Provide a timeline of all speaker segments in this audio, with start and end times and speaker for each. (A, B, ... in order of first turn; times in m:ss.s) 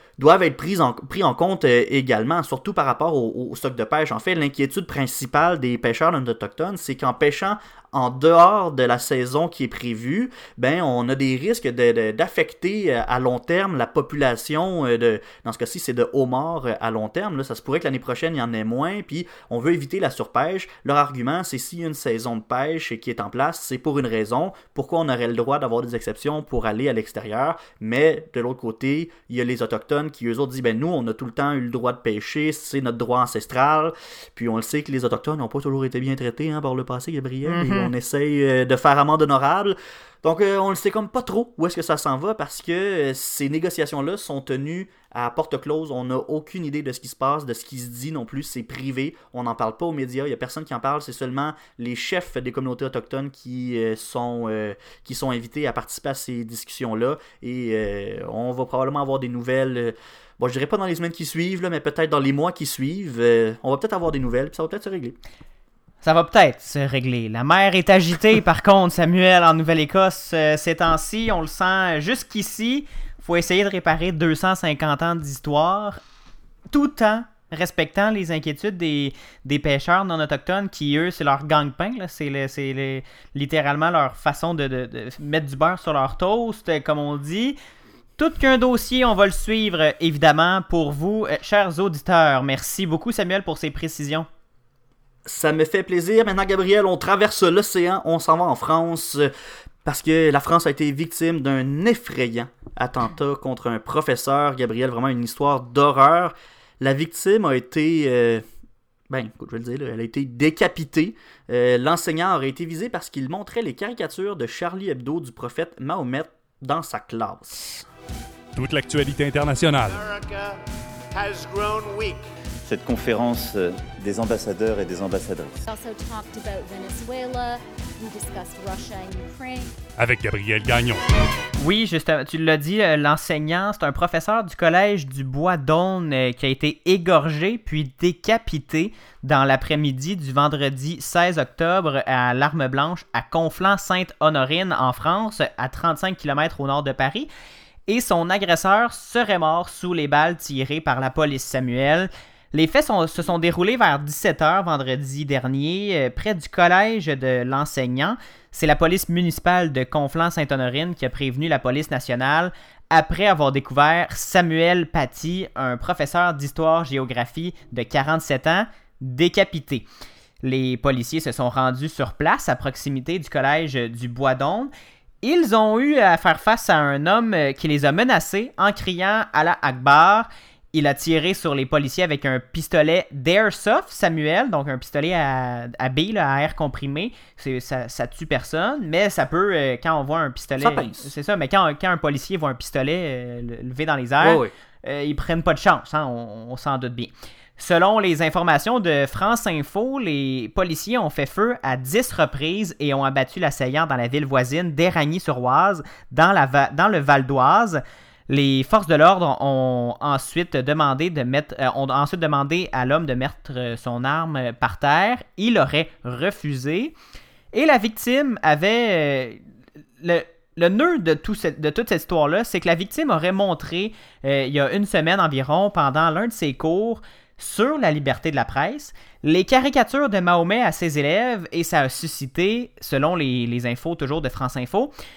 0:00.2-1:05.2 A
0:37.4-0:37.9 B
1:06.0-1:16.0 B
1:16.7-1:27.6 B
1:28.2-1:34.3 B
1:35.3-1:39.3 A
1:39.8-1:48.4 A
1:49.1-1:57.9 A
1:58.6-2:00.0 C
1:59.8-2:00.6 D
2:01.1-2:02.2 D
2:02.7-2:05.6 E
2:05.7-2:09.7 F
2:10.0-2:11.0 C
2:11.6-2:27.3 B
2:27.9-2:49.9 B
2:50.4-2:54.7 B
2:55.2-3:36.9 B
3:10.6-3:11.1 A
3:14.2-3:14.5 A
3:37.5-3:39.4 B
3:40.0-3:54.9 B